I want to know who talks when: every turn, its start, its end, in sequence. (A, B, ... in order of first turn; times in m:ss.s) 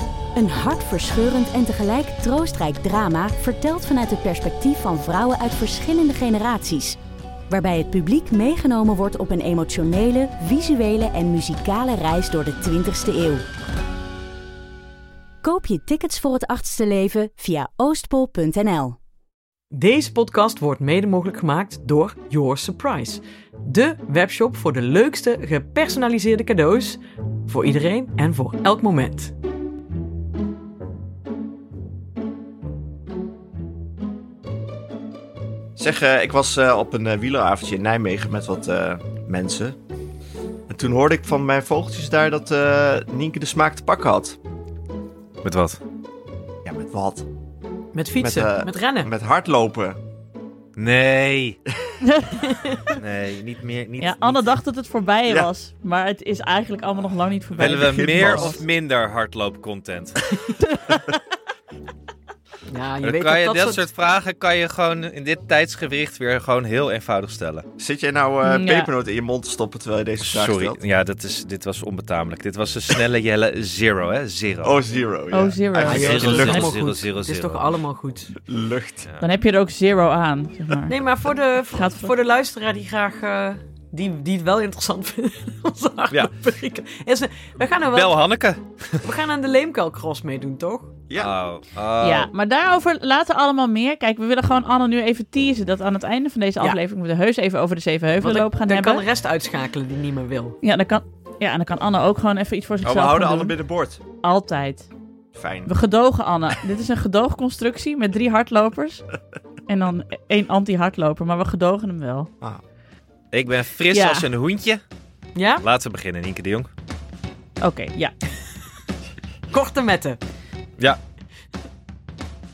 0:00.4-0:07.0 A
0:07.5-0:13.4 A
0:15.4-0:19.0 A
0:19.7-0:29.3 B
0:35.8-0:39.8 C
0:40.7-0:44.4 C
0:45.4-0:45.8 D
0:46.6-0:47.3 C
0:47.9-0:49.1 B
0:48.2-0:50.0 C
0:50.8-0:51.6 D
0:52.0-0:52.4 E
0:52.9-0:54.5 D
0:54.0-0:58.6 E
0:57.6-1:00.2 D
0:57.6-0:58.6 C
1:00.6-1:01.0 E
1:02.7-1:03.8 B
1:03.0-1:07.7 D
1:07.8-1:10.8 C
1:08.4-1:08.9 E
1:10.2-1:14.8 D
1:14.6-1:16.7 C
1:15.3-1:16.3 E
1:15.9-1:18.4 B
1:15.9-1:17.7 D
1:18.4-1:19.1 C
1:19.2-1:21.0 E
1:20.9-1:28.2 B
1:21.7-1:22.1 E
1:27.9-1:29.0 D
1:29.0-1:30.9 B
1:31.2-1:32.3 D
1:32.0-1:39.0 E
1:38.2-1:40.6 B
1:40.6-1:43.6 E
1:42.8-1:44.0 C
1:44.2-1:44.9 E
1:45.3-1:45.7 C
1:45.7-1:49.0 E
1:49.7-1:52.3 E
1:53.3-1:54.8 D
1:53.9-1:54.3 E
1:55.4-1:55.6 B
1:55.6-1:56.7 D
1:57.6-1:58.1 E
1:59.5-2:00.2 B